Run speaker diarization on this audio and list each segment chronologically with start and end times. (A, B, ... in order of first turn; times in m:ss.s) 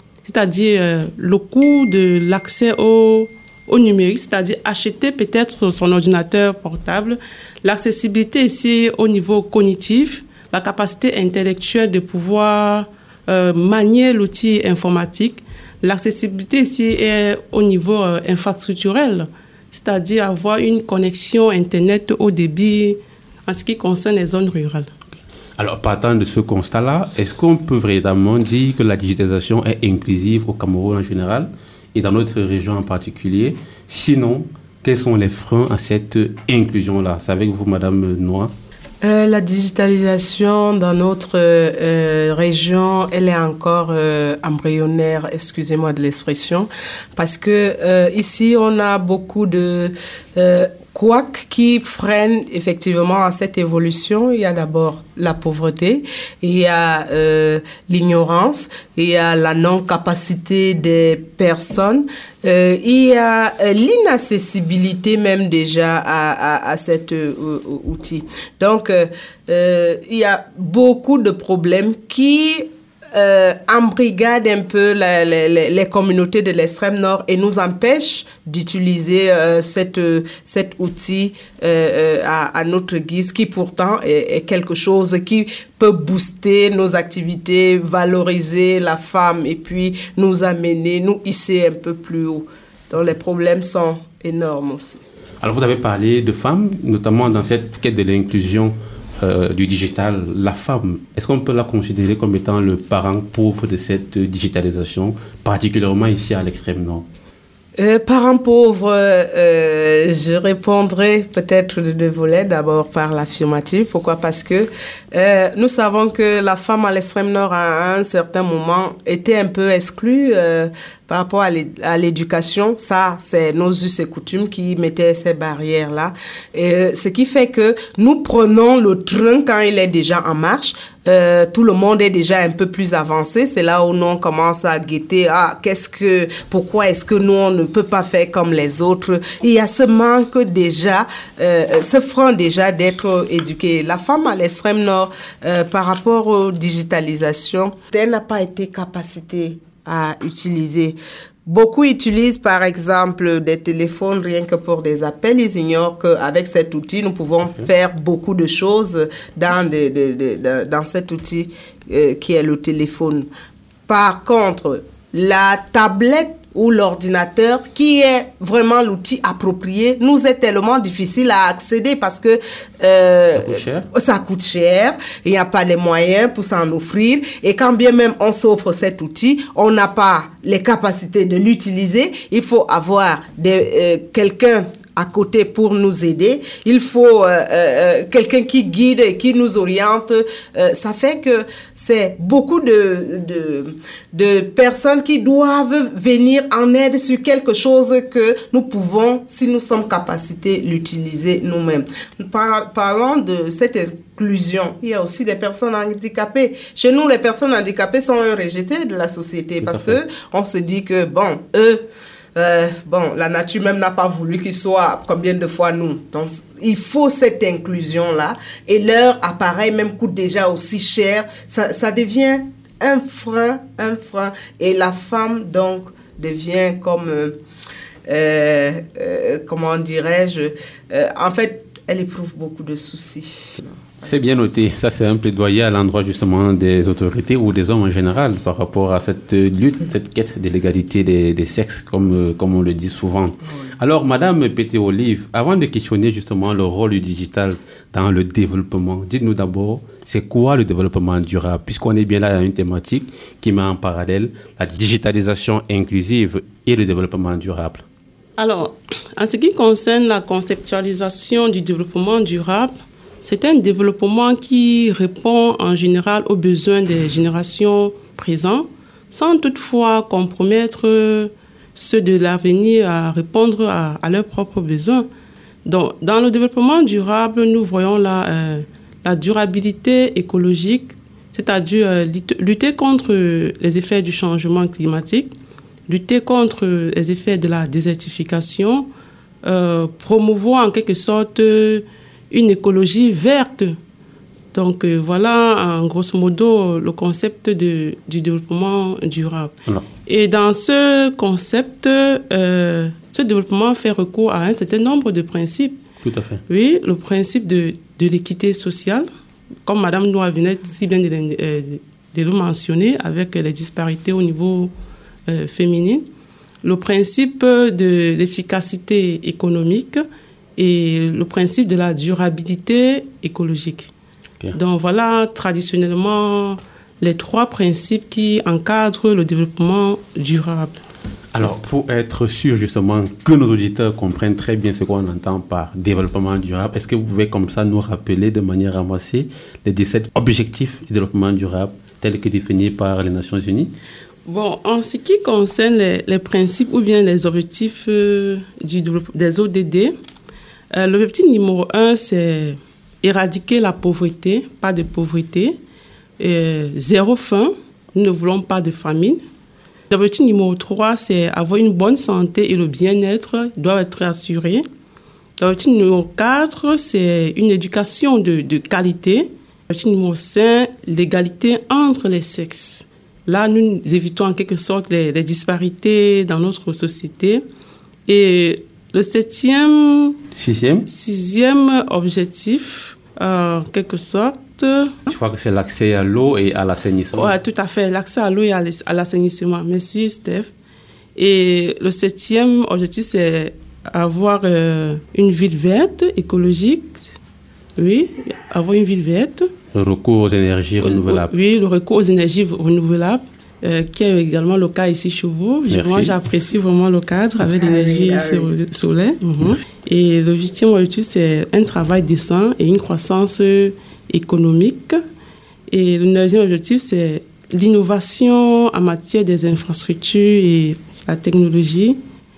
0:00.2-0:24.9 A
0:25.6-0:38.5 B
0:39.0-1:35.0 C
1:35.4-1:47.0 B
1:47.8-2:43.3 C
2:43.9-3:31.8 C
2:53.3-2:53.9 B
3:29.6-3:30.0 B
3:32.4-3:47.4 C
3:48.1-3:54.1 C
3:54.0-4:17.8 B
4:18.4-4:35.1 A
4:35.6-4:45.3 A
4:45.9-4:48.9 A
4:49.4-4:53.8 A
4:54.5-4:59.5 A
5:00.0-5:05.8 A
5:06.0-5:06.4 B
5:06.5-5:09.1 A
5:09.6-5:14.7 A
5:15.3-5:16.0 A
5:16.6-5:20.0 A
5:20.6-5:23.9 A
5:24.5-5:30.8 A
5:31.3-5:43.7 B
5:44.2-5:49.9 A
5:50.7-5:55.6 A
5:56.2-5:59.2 A
5:59.9-6:04.6 A
6:05.4-6:17.4 A
6:18.1-6:20.2 A
6:20.3-6:20.9 B
6:20.9-6:25.0 A
6:25.1-6:27.4 B
6:27.1-6:30.5 A
6:31.2-6:37.1 A
6:37.8-6:39.5 A
6:39.7-6:41.3 B
6:40.8-6:55.0 A
6:45.7-6:46.2 B
6:47.4-6:48.5 C
6:55.7-7:02.0 A